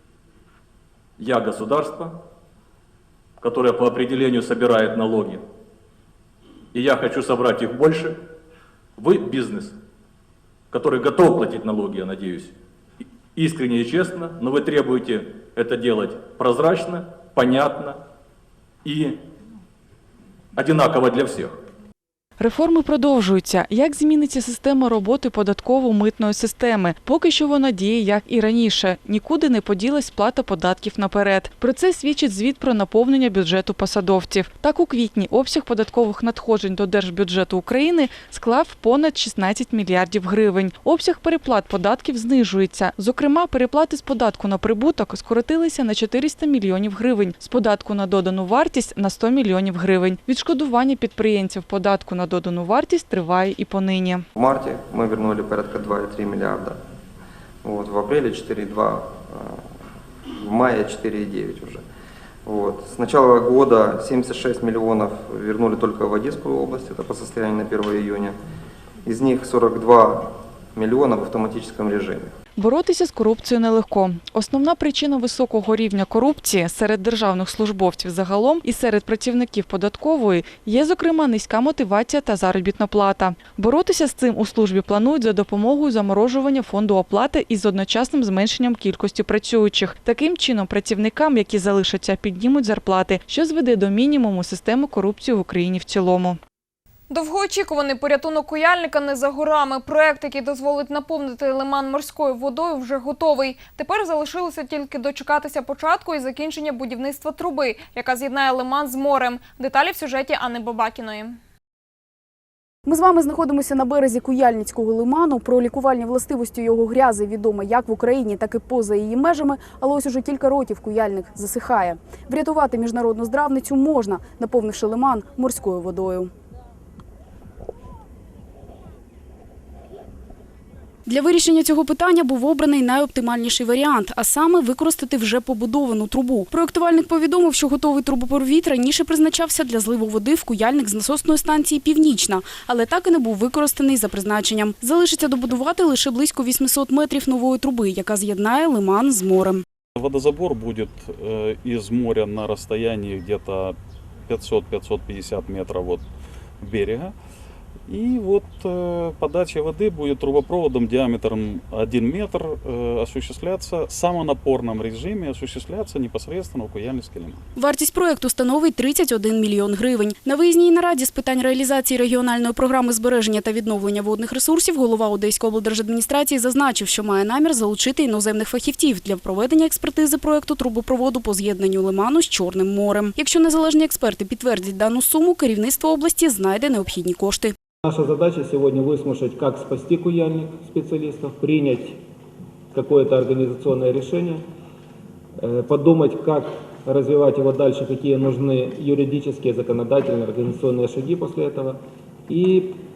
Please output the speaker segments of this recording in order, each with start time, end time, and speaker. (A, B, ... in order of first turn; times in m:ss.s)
0:01.2-0:02.2 A
0:03.4-0:05.4 A
0:06.7-0:08.2 A
0:09.0-0:09.8 A
0:10.7-0:12.5 A
0:13.4-0:18.0 A
0:18.8-0:19.2 A
0:20.6-0:21.6 A
0:22.4-0:54.2 B
0:54.4-0:56.8 C
0:57.6-0:59.6 C
1:00.4-1:01.8 C
1:02.5-1:08.4 C
1:09.0-1:12.4 C
1:12.6-1:36.4 B
1:37.1-1:51.4 D
1:52.9-2:06.3 E
2:11.1-2:29.6 E
2:30.0-2:33.8 F
2:34.3-2:36.0 F
2:36.6-2:37.2 F
2:37.9-2:47.4 F
2:47.6-3:07.5 E
3:07.8-3:12.0 G
3:12.7-3:14.4 G
3:15.4-3:22.8 G